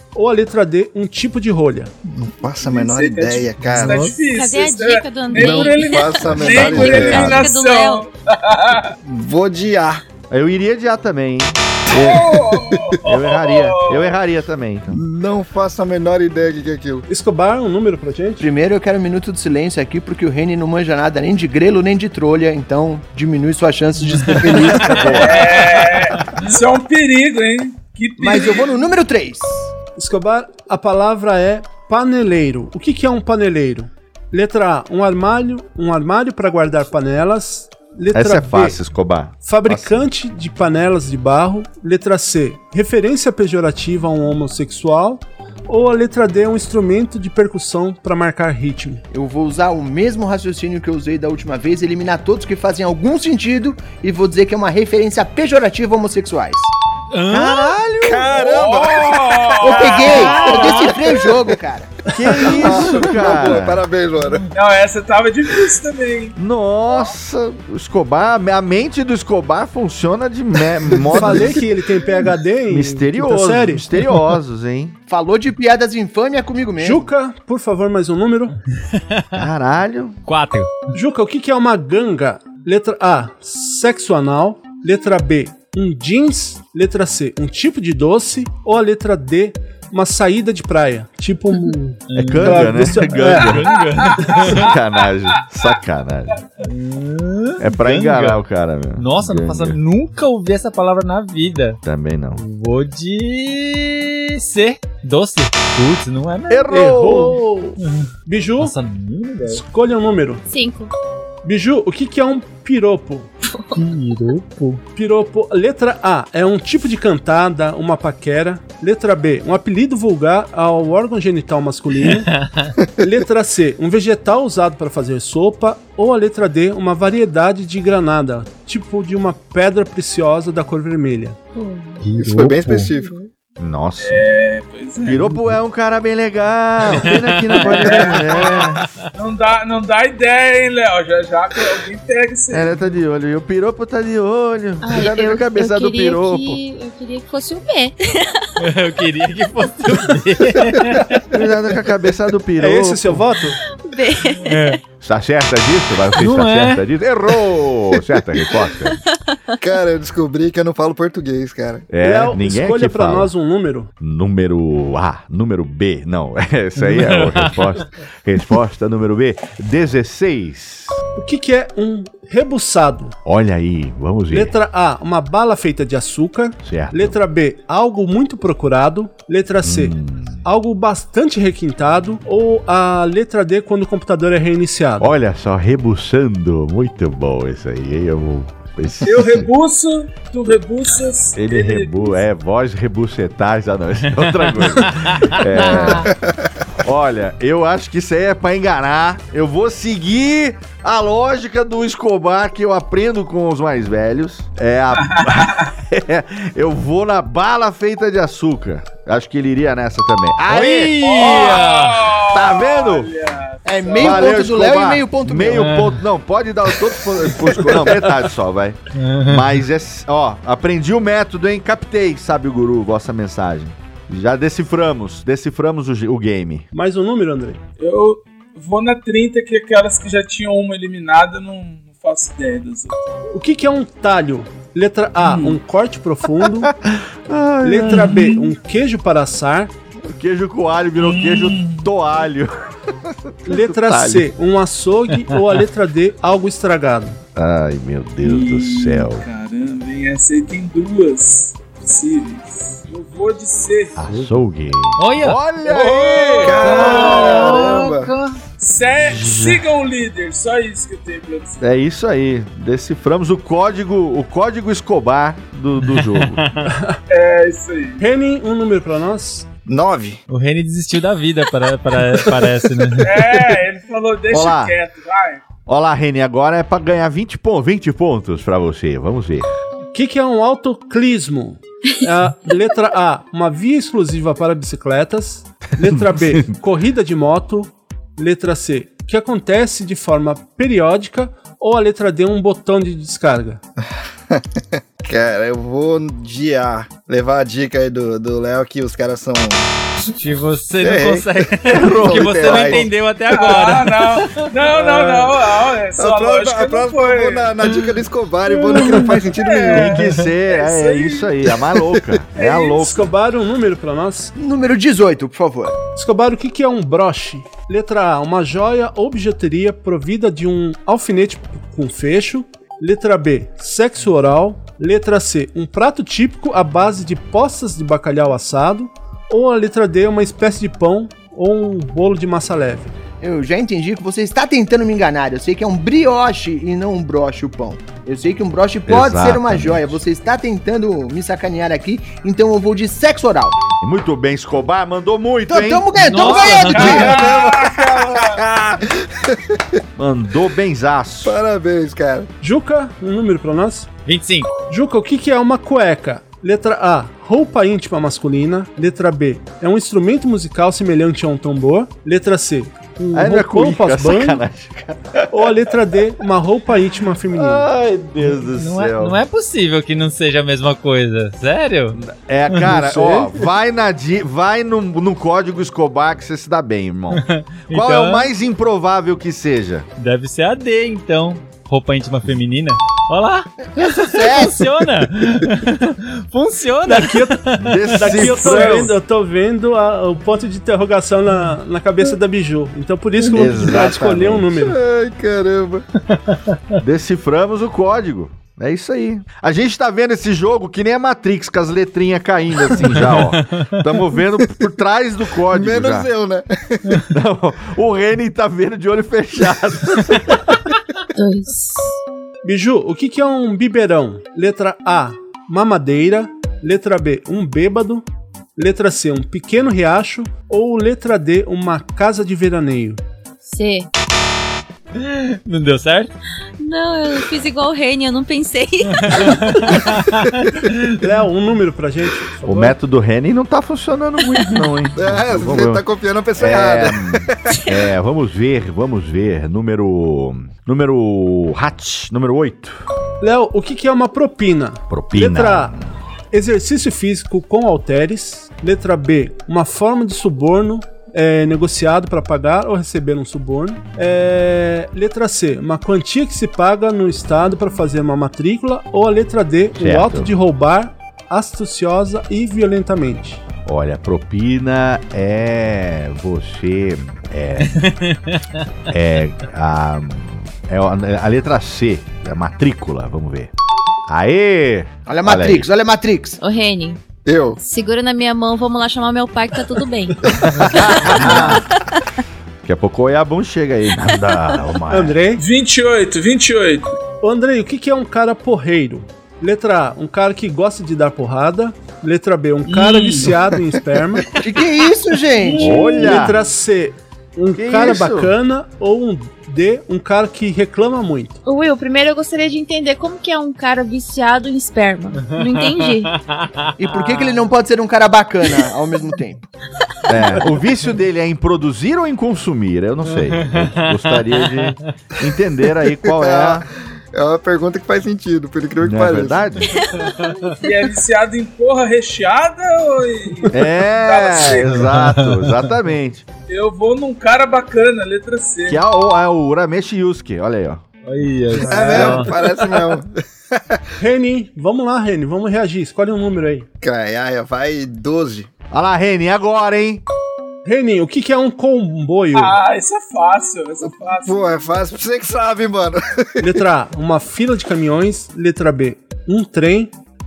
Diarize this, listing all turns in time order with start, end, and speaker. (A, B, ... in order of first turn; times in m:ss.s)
0:00.1-0:01.9 A
0:02.1-0:04.1 B
0:02.6-0:08.9 C
0:04.2-0:08.0 D
0:05.4-0:07.4 B
0:07.0-0:07.4 E
0:09.0-0:10.0 B
0:10.3-0:12.4 E
0:11.9-0:14.1 C
0:12.4-0:12.8 B
0:13.0-0:15.0 E
0:14.9-0:17.0 B
0:17.1-0:18.4 A
0:18.4-0:25.1 F
0:24.3-0:25.8 E
0:25.1-0:28.7 C
0:28.2-0:29.6 F
0:30.0-0:38.8 A
0:38.1-0:40.0 E
0:39.4-0:49.0 A
0:49.1-0:56.7 F
0:57.1-0:57.7 G
0:57.3-0:58.4 E
0:58.0-1:00.7 B
0:58.4-1:00.8 C
0:59.6-1:01.9 F
1:00.4-1:00.9 G
1:02.1-1:03.8 E
1:02.3-1:04.4 B
1:04.5-1:06.4 C
1:06.4-1:11.6 E
1:11.1-1:13.8 A
1:12.7-1:15.0 E
1:15.1-1:17.1 F
1:16.8-1:18.6 A
1:19.0-1:19.2 G
1:19.3-1:20.2 E
1:20.3-1:20.7 G
1:20.9-1:33.5 A
1:32.1-1:34.6 G
1:32.1-1:33.8 E
1:33.8-1:34.7 C
1:34.4-1:36.4 E
1:36.6-1:38.4 G
1:37.6-1:39.8 E
1:39.0-1:41.8 G
1:41.8-1:42.4 E
1:42.4-1:46.6 G
1:46.5-1:47.4 E
1:46.7-1:48.7 A
1:48.6-1:49.6 G
1:49.5-1:50.4 A
1:50.5-1:50.9 D
1:51.4-1:53.3 A
1:53.8-1:54.8 G
1:54.6-2:02.3 A
2:02.4-2:02.7 G
2:03.0-2:11.4 A
2:11.5-2:12.0 D
2:12.0-2:12.9 G
2:12.2-2:13.1 B
2:12.9-2:13.3 D
2:13.6-2:14.2 E
2:14.0-2:15.3 C
2:15.0-2:18.8 E
2:17.1-2:18.6 G
2:17.7-2:22.7 C
2:22.5-2:26.6 E
2:24.8-2:28.5 D
2:28.6-2:31.2 G
2:31.3-2:33.2 E
2:32.6-2:33.6 A
2:33.8-2:34.8 D
2:34.4-2:34.8 G
2:35.0-2:39.0 E
2:36.2-2:36.8 G
2:39.6-2:41.8 B
2:41.9-2:43.3 E
2:42.0-2:43.9 A
2:44.0-2:51.0 E
2:46.9-2:47.3 G
2:51.2-2:53.1 A
2:53.2-2:54.5 E
2:54.3-3:05.1 A
2:56.6-2:57.2 E
2:59.6-3:00.4 E
3:05.0-3:09.5 E
3:09.0-3:12.2 C
3:11.4-3:16.1 E
3:14.5-3:16.0 G
3:15.8-3:16.2 B
3:16.8-3:31.7 E
3:25.0-3:25.7 C
3:30.5-3:32.0 G
3:31.0-3:34.4 C
3:32.3-3:33.1 E
3:33.6-3:35.7 F
3:34.0-3:46.6 E
3:35.5-3:36.0 G
3:38.9-3:39.5 G
3:46.7-3:47.6 A
3:47.8-3:53.1 C
3:53.3-3:56.7 A
3:55.2-3:55.6 C
3:56.6-3:58.3 E
3:57.6-3:59.7 A
4:00.0-4:02.5 E
4:01.0-4:01.9 C
4:03.4-4:04.3 E
4:03.4-4:07.2 A
4:07.3-4:09.2 E
4:08.2-4:14.0 C
4:14.0-4:17.4 E
4:15.0-4:15.4 G
4:15.6-4:17.8 C
4:16.4-4:18.1 B
4:16.7-4:18.4 G
4:18.6-4:21.6 C
4:19.0-4:19.6 E
4:21.6-4:26.4 E
4:25.9-4:26.7 G
4:26.7-4:27.0 A
4:27.1-4:28.0 C
4:28.0-4:29.4 A
4:29.7-4:30.2 B
4:30.3-4:33.2 G
4:33.0-4:35.4 C
4:34.3-4:34.8 E
4:35.6-4:39.5 E
4:39.9-4:53.6 A
4:45.8-4:46.5 E
4:54.3-4:59.7 B
5:00.1-5:04.5 G
5:00.8-5:02.9 B
5:01.6-5:02.8 E
5:03.3-5:07.5 C
5:04.7-5:10.0 B
5:08.5-5:11.4 C
5:09.6-5:13.1 E
5:11.7-5:12.2 B
5:12.4-5:12.8 C
5:12.8-5:14.3 A
5:14.4-5:15.8 F
5:15.9-5:32.9 A
5:33.2-5:43.6 F
5:38.9-5:40.0 E
5:43.8-5:46.3 E
5:45.5-5:47.2 F
5:46.0-5:47.2 G
5:46.2-5:48.4 C
5:46.8-5:49.6 B
5:50.0-5:51.4 E
5:51.2-5:52.3 B
5:52.4-5:53.9 A
5:54.0-5:54.5 G
5:54.7-6:04.4 A
6:03.1-6:05.5 E
6:05.3-6:07.6 A
6:07.3-6:09.2 E
6:08.3-6:12.0 G
6:12.0-6:19.8 E
6:12.6-6:13.4 A
6:17.1-6:18.3 G
6:20.0-6:28.8 G
6:24.0-6:24.6 F
6:26.8-6:34.8 A
6:27.6-6:28.9 E
6:33.3-6:34.5 E
6:34.6-6:35.8 B
6:36.8-6:46.1 E
6:43.1-6:43.6 G
6:45.5-6:47.0 B
6:47.1-6:50.4 E
6:51.1-6:51.8 D
6:52.4-6:58.0 A
6:58.6-7:03.0 A
7:03.4-7:03.9 D
7:05.0-7:06.1 G
7:06.6-7:09.4 D
7:09.0-7:10.8 G
7:10.9-7:12.8 A
7:12.4-7:15.8 E
7:14.9-7:17.5 B
7:16.4-7:22.8 E
7:23.2-7:25.7 A
7:24.9-7:25.9 E
7:26.3-7:43.4 A
7:39.8-7:40.3 E
7:43.6-7:47.9 E
7:48.9-7:53.5 E
7:54.1-7:55.7 E
7:55.1-7:56.4 F
7:56.4-7:57.0 D
7:57.2-7:57.6 B
7:57.6-8:00.2 D
8:00.6-8:01.6 E
8:01.0-8:01.6 D
8:02.6-8:05.2 E
8:04.9-8:05.4 A
8:05.4-8:06.9 C
8:07.2-8:14.2 A
8:12.7-8:13.4 C
8:14.4-8:15.7 F
8:15.6-8:21.4 A
8:15.6-8:16.4 E
8:17.6-8:18.3 E
8:21.4-8:26.1 D
8:25.3-8:27.4 G
8:26.8-8:29.4 F
8:30.1-8:36.7 E
8:33.2-8:34.7 G
8:36.0-8:39.4 B
8:38.8-8:39.8 E
8:39.8-8:40.5 D
8:40.6-8:44.9 C
8:43.5-8:46.2 E
8:44.9-8:45.5 G
8:46.5-8:48.8 C
8:48.7-8:50.8 E
8:51.0-8:52.3 G
8:51.5-8:52.3 A
8:51.6-8:53.8 B
8:54.0-8:56.6 A
8:56.8-8:58.5 B
8:58.7-9:00.0 E
9:00.6-9:02.6 A
9:02.3-9:04.6 C
9:04.2-9:06.4 B
9:06.4-9:09.9 A